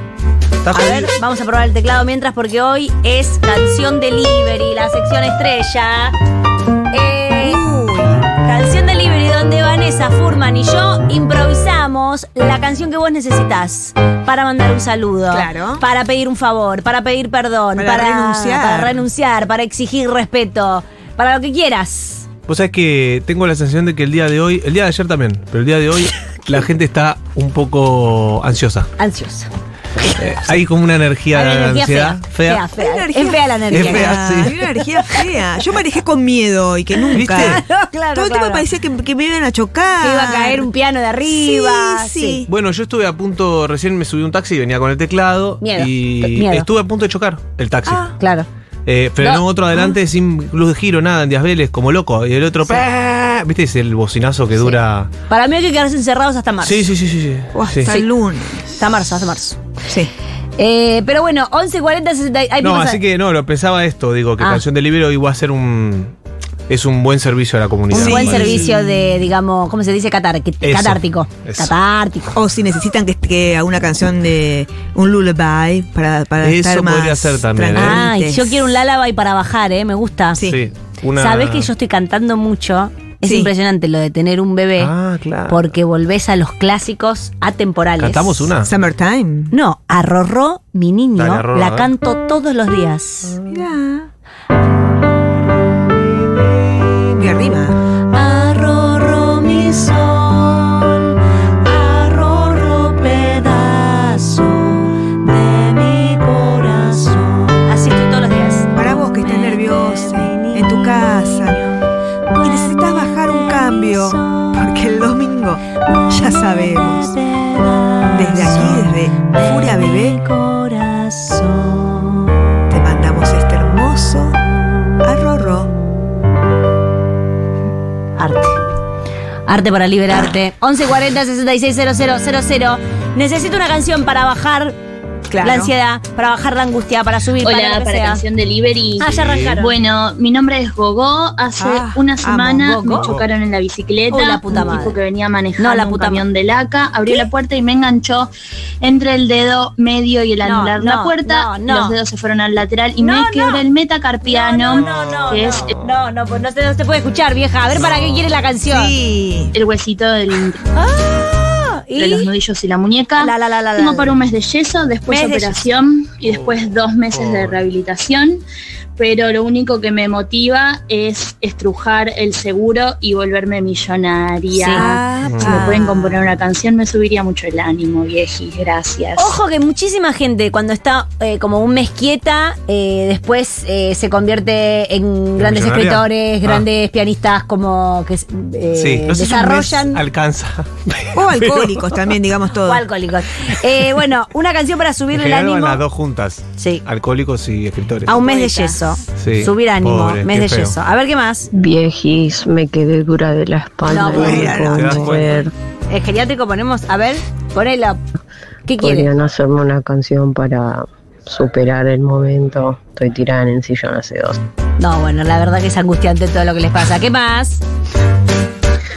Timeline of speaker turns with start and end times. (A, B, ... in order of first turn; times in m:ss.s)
0:00.6-0:01.1 A
0:00.7-0:06.1 B
0:06.9-0:07.6 B
0:07.4-0:08.3 C
0:08.4-0:22.3 B
0:15.3-0:15.8 C
0:17.8-0:19.0 C
0:22.5-0:28.9 A
0:29.0-0:29.5 B
0:30.2-0:32.7 A
0:31.3-0:34.5 B
0:32.8-0:37.6 C
0:33.7-0:34.5 A
0:37.1-0:38.6 B
0:37.1-0:37.6 A
0:38.1-0:40.7 C
0:40.0-0:42.4 B
0:41.3-0:42.5 C
0:42.5-0:48.1 A
0:45.6-0:46.7 B
0:47.8-0:48.1 C
0:48.2-0:48.5 B
0:48.8-0:55.1 A
0:55.3-0:56.9 B
0:56.6-0:57.9 A
0:57.5-0:58.7 C
0:58.7-0:59.6 B
0:59.8-1:00.1 C
1:00.6-1:03.0 B
1:02.6-1:06.1 A
1:04.4-1:04.6 B
1:06.7-1:08.6 A
1:07.9-1:12.3 B
1:07.9-1:08.8 C
1:10.6-1:11.8 A
1:12.3-1:18.5 C
1:16.4-1:18.0 A
1:17.7-1:20.4 B
1:20.4-1:21.7 A
1:21.2-1:24.9 B
1:23.2-1:23.5 C
1:24.8-1:25.7 A
1:25.5-1:28.5 B
1:28.0-1:28.7 A
1:28.6-1:29.5 C
1:29.5-1:33.4 B
1:31.2-1:31.9 A
1:33.5-1:34.1 C
1:36.9-1:37.8 C
1:38.1-1:51.5 B
1:48.7-1:51.8 C
1:52.3-1:54.6 B
1:52.4-1:57.2 C
1:55.9-2:02.3 B
1:58.1-2:00.2 C
2:02.7-2:04.4 C
2:05.0-2:05.7 C
2:08.2-2:08.6 B
2:09.4-2:14.8 B
2:15.3-2:15.7 C
2:15.4-2:18.2 B
2:17.4-2:19.0 D
2:19.0-2:19.7 B
2:19.0-2:19.6 A
2:19.6-2:28.3 D
2:21.5-2:22.7 C
2:22.6-2:23.2 B
2:23.0-2:23.3 A
2:24.1-2:25.0 B
2:25.6-2:26.2 B
2:28.8-2:35.6 D
2:30.4-2:32.0 B
2:33.0-2:33.6 B
2:34.2-2:39.0 B
2:34.7-2:35.7 A
2:37.8-2:38.3 A
2:38.7-2:39.5 C
2:39.6-2:40.6 D
2:40.8-2:42.3 B
2:42.0-2:48.4 D
2:43.2-2:44.1 B
2:45.1-2:45.6 B
2:46.3-2:47.7 A
2:49.0-2:55.0 D
2:54.5-2:56.0 B
2:54.7-2:56.0 C
2:55.2-2:55.7 A
2:55.5-2:59.3 D
2:59.2-3:10.0 B
3:05.4-3:06.7 A
3:08.7-3:12.2 A
3:11.1-3:12.8 C
3:12.6-3:15.8 B
3:15.1-3:18.2 A
3:16.6-3:16.8 B
3:18.0-3:21.5 B
3:18.2-3:18.8 C
3:19.2-3:20.7 A
3:21.5-3:25.5 E
3:23.9-3:24.6 B
3:24.0-3:25.1 C
3:24.6-3:25.4 A
3:25.9-3:28.0 B
3:28.6-3:29.1 B
3:28.8-3:34.4 E
3:34.8-3:37.6 B